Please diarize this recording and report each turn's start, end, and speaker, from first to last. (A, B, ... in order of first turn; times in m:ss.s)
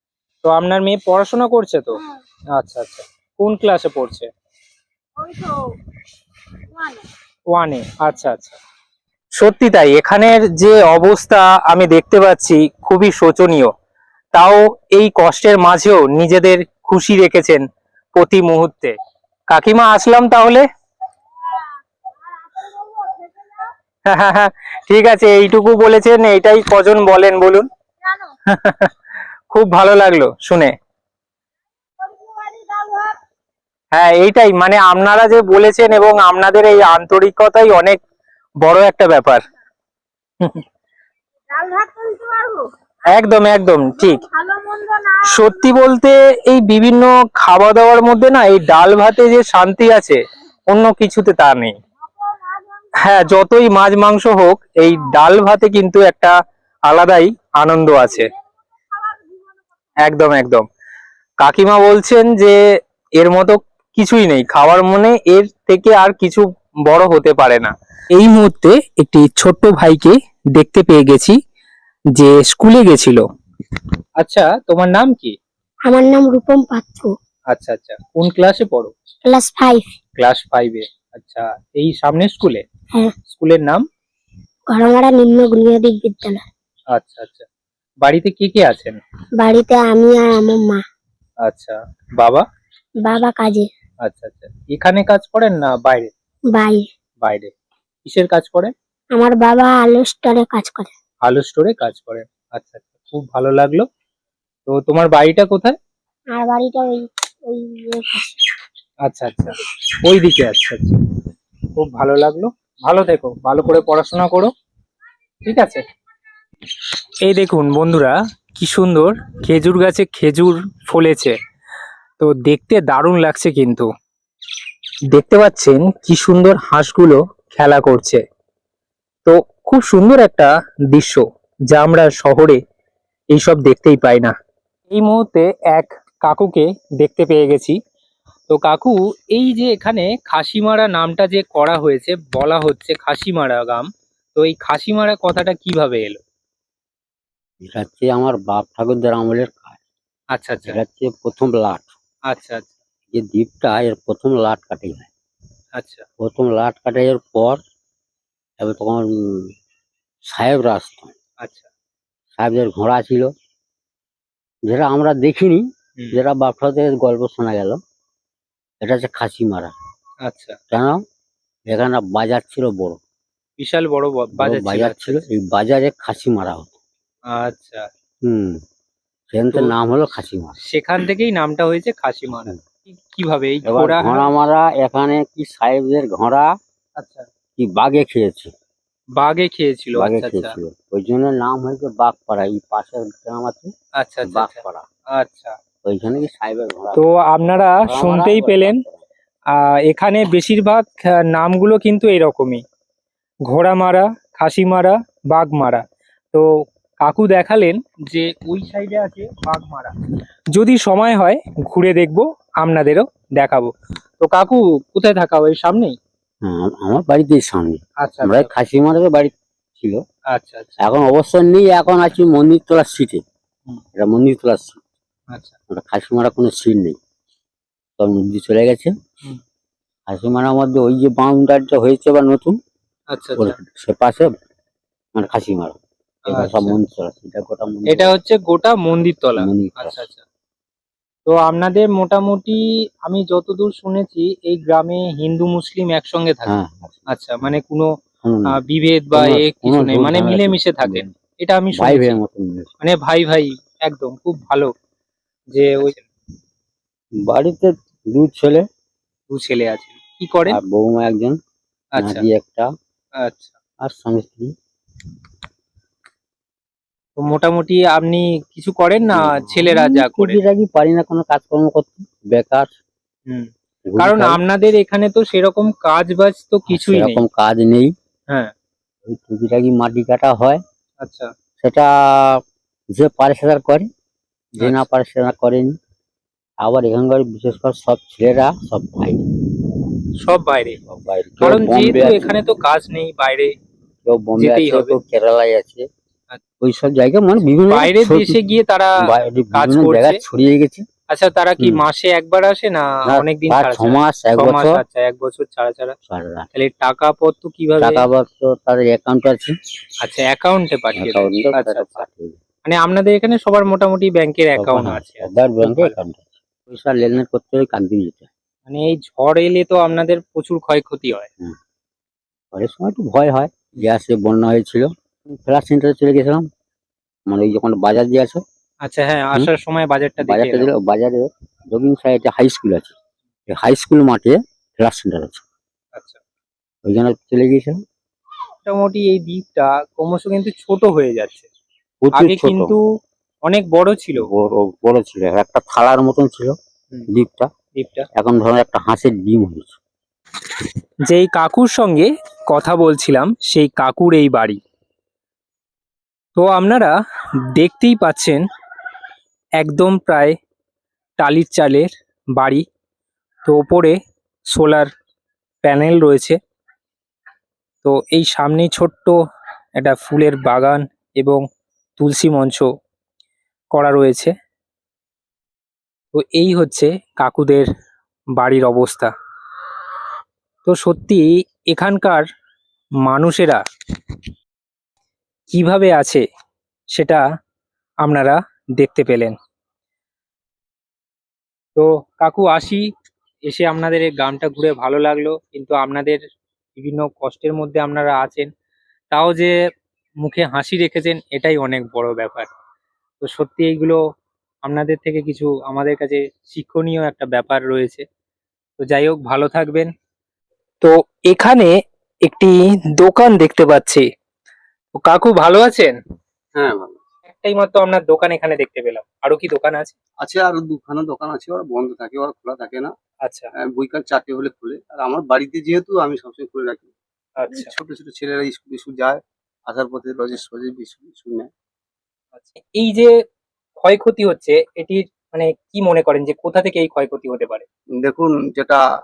0:00.4-0:02.0 A
0:01.9-0:02.2 B
0:02.5-0:04.3 A
0:05.2-0:05.6 B
0:06.7-0:07.1 B
0:07.5-0:08.6 A
0:09.4-0:13.7 A
0:14.3-0:19.0 A
0:19.5-0:20.6 A
0:21.4-0:23.7 B
0:24.0-0:27.7 A
0:28.0-0:28.3 B
0:28.5-0:28.9 A
0:29.5-0:30.7 A
0:32.0-0:33.2 B
0:33.9-0:38.0 A
0:38.6-0:39.4 A
0:41.5-0:42.7 B
0:43.1-0:44.2 A
0:44.0-0:45.6 B
0:45.3-0:51.7 A
0:52.0-0:53.3 B
0:53.0-0:56.3 A
0:56.9-0:58.3 A
0:58.0-0:59.6 B
1:00.0-1:00.6 A
1:01.4-1:02.6 A
1:03.2-1:11.4 A
1:12.1-1:13.2 A
1:14.2-1:15.4 A
1:15.8-1:17.1 C
1:17.5-1:18.9 A
1:19.2-1:19.9 C
1:20.2-1:22.6 A
1:23.3-1:23.8 A
1:24.7-1:26.4 C
1:26.9-1:27.4 A
1:28.0-1:29.0 A
1:29.4-1:30.8 C
1:31.4-1:32.4 A
1:33.0-1:33.7 C
1:34.0-1:36.1 A
1:36.5-1:36.8 C
1:37.2-1:37.5 A
1:38.0-1:38.7 A
1:39.1-1:40.9 C
1:41.2-1:43.8 A
1:44.7-1:45.8 A
1:46.3-1:48.3 C
1:49.0-1:50.9 A
1:51.8-1:54.5 A
1:55.4-1:55.8 A
1:57.2-2:01.4 A
2:02.2-2:03.9 A
2:05.1-2:08.2 A
2:09.2-2:12.6 A
2:13.3-2:14.3 A
2:14.9-2:17.8 A
2:18.5-2:26.2 A
2:27.6-2:29.8 D
2:30.3-2:30.8 A
2:30.6-2:31.9 D
2:32.3-2:32.7 A
2:33.1-2:35.1 D
2:35.8-2:36.0 A
2:36.2-2:37.6 D
2:38.6-2:39.5 D
2:40.2-2:41.1 D
2:41.4-2:41.7 A
2:42.3-2:43.3 D
2:44.6-2:47.8 D
2:48.8-2:49.7 D
2:50.2-2:50.6 A
2:50.7-2:51.0 D
2:51.7-2:53.0 D
2:53.6-2:55.2 A
2:54.4-2:56.7 D
2:57.3-2:57.9 A
2:58.2-2:58.6 D
2:59.3-3:00.5 D
3:00.6-3:04.3 A
3:03.6-3:06.5 D
3:07.0-3:07.2 A
3:07.6-3:08.5 D
3:09.2-3:10.6 A
3:10.0-3:13.7 D
3:14.0-3:14.6 A
3:14.2-3:14.8 D
3:15.1-3:15.6 A
3:15.8-3:17.0 D
3:16.9-3:18.8 A
3:17.8-3:19.0 D
3:19.5-3:22.6 A
3:23.5-3:26.4 A
3:27.0-3:29.9 A
3:30.5-3:36.0 A
3:36.4-3:40.0 D
3:38.0-3:38.5 A
3:40.3-3:40.8 A
3:40.8-3:43.2 D
3:44.0-3:44.8 D
3:45.7-3:47.0 D
3:48.0-3:48.9 D
3:50.1-3:52.6 D
3:53.1-3:53.6 A
3:53.4-3:54.3 D
3:55.1-3:55.8 D
3:56.3-3:56.8 A
3:56.3-3:58.1 D
3:57.9-4:00.2 A
3:59.4-4:00.0 D
4:01.3-4:06.5 A
4:06.5-4:07.0 D
4:07.1-4:07.9 A
4:08.2-4:08.5 D
4:08.5-4:12.2 A
4:09.1-4:11.2 D
4:11.7-4:12.7 D
4:12.8-4:14.7 A
4:15.5-4:16.0 A
4:17.2-4:18.6 D
4:19.3-4:20.6 A
4:20.5-4:21.4 D
4:22.0-4:22.2 A
4:22.0-4:22.7 D
4:23.2-4:23.5 A
4:23.8-4:24.5 D
4:27.2-4:30.4 A
4:29.1-4:32.8 D
4:33.3-4:37.2 A
4:33.8-4:34.4 D
4:36.7-4:37.9 D
4:39.0-4:40.6 D
4:41.0-4:41.3 A
4:41.6-4:43.9 D
4:44.6-4:44.8 A
4:44.6-4:45.8 D
4:46.6-4:49.8 D
4:50.2-4:50.8 A
4:50.7-4:52.4 D
4:51.4-4:53.5 A
4:54.0-4:55.8 D
4:54.4-4:55.0 A
4:56.6-4:58.4 D
4:57.7-4:59.0 A
4:59.0-5:00.8 D
4:59.5-5:00.2 A
5:01.1-5:06.0 A
5:03.1-5:04.8 D
5:06.1-5:06.5 D
5:06.5-5:08.0 A
5:07.8-5:09.5 D
5:10.0-5:12.0 A
5:11.0-5:12.4 D
5:12.6-5:15.9 A
5:14.6-5:18.3 D
5:18.7-5:21.3 A
5:22.5-5:26.5 D
5:27.3-5:28.4 D
5:28.8-5:30.7 A
5:30.2-5:32.9 D
5:33.5-5:35.4 D
5:36.8-5:37.8 D
5:38.6-5:41.5 A
5:42.0-5:42.7 D
5:42.2-5:42.8 A
5:43.4-5:44.3 A
5:44.2-5:46.5 D
5:47.1-5:47.5 D
5:47.7-5:48.1 A
5:48.1-5:49.8 D
5:51.1-5:54.6 A
5:56.4-5:56.9 A
5:57.5-5:58.4 A
5:59.6-6:00.4 A
6:01.2-6:02.6 A
6:03.4-6:04.0 A
6:04.5-6:04.9 A
6:05.6-6:06.4 A
6:07.8-6:09.2 A
6:09.8-6:11.4 A
6:12.0-6:12.7 A
6:13.7-6:14.3 A
6:16.1-6:17.7 A
6:18.4-6:19.1 A
6:20.6-6:22.2 A
6:23.0-6:23.6 A
6:25.5-6:26.2 A
6:26.9-6:27.2 A
6:28.0-6:29.3 A
6:31.8-6:32.8 A
6:33.5-6:36.2 A
6:36.8-6:38.5 A
6:39.1-6:39.5 A
6:40.2-6:42.5 A
6:43.2-6:44.0 A
6:44.6-6:48.0 A
6:48.8-6:49.9 A
6:50.8-6:51.7 A
6:52.2-6:54.0 A
6:55.0-6:55.9 A
6:56.6-6:57.0 E
6:57.3-6:59.9 A
7:00.2-7:02.9 E
7:03.2-7:03.5 A
7:03.6-7:06.9 E
7:07.4-7:07.7 A
7:07.5-7:11.5 E
7:12.4-7:13.1 A
7:13.8-7:17.6 A
7:18.0-7:18.8 E